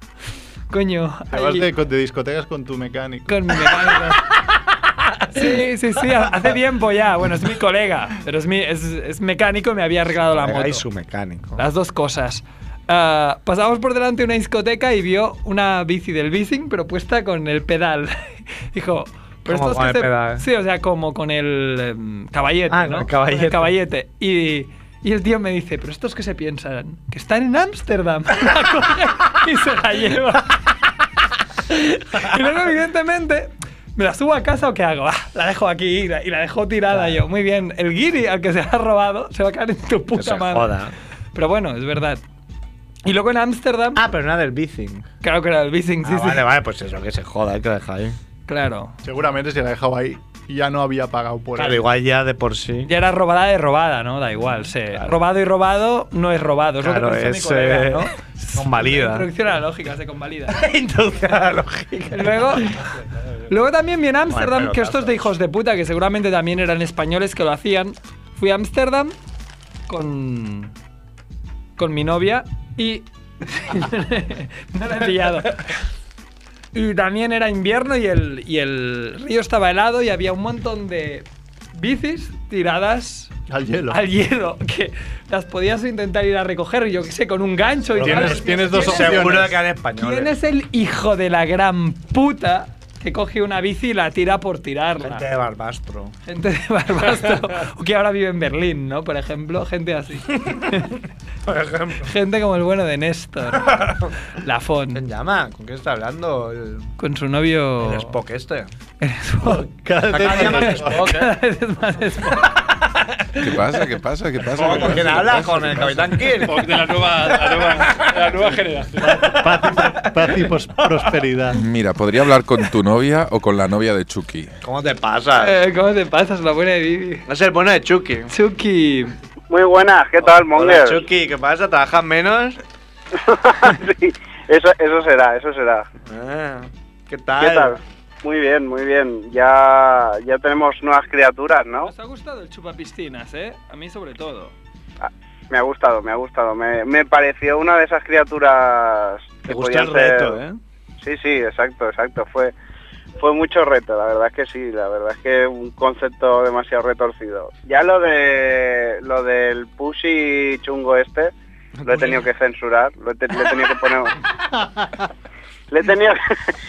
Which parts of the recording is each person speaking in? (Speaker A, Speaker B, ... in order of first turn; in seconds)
Speaker A: 0.7-1.7, 3.3-4.3, 5.3-10.8, 11.6-30.6, 31.7-40.8, 41.3-42.2, 43.0-44.0, 45.2-46.4, 48.5-49.0, 52.9-60.6, 62.1-62.8, 63.5-69.1, 69.9-70.7, 71.8-75.6, 76.7-83.3, 83.9-95.2, 96.3-101.0, 102.0-103.7, 104.3-105.0, 107.0-108.1, 109.0-112.6, 125.4-127.3, 128.3-129.2, 141.8-144.5
Speaker B: 1.3-3.6, 49.0-51.9, 83.5-84.0, 88.0-89.6, 109.7-111.2, 119.0-121.6, 164.5-165.1
Speaker C: 4.4-5.6, 10.3-11.6, 19.4-20.4, 22.7-23.7, 36.9-37.2, 40.1-40.9, 44.0-45.1, 46.0-48.2, 51.5-52.9, 56.8-59.3, 60.5-62.6, 64.3-65.3, 88.0-90.3, 95.0-96.1, 100.3-100.8, 101.5-102.1, 103.5-104.1, 104.9-106.9, 107.8-108.7, 110.1-111.3, 112.5-113.8, 114.5-118.5, 119.0-120.4, 124.6-125.5, 127.3-128.3, 130.2-132.6, 136.1-137.8, 149.5-150.6, 161.8-162.3
Speaker D: 113.4-116.1, 121.5-124.5
Speaker E: 116.4-119.4
Speaker F: 129.5-131.1, 133.2-135.9, 137.4-141.9, 145.0-150.4, 151.0-152.5, 153.2-161.3, 161.8-164.1, 165.7-166.2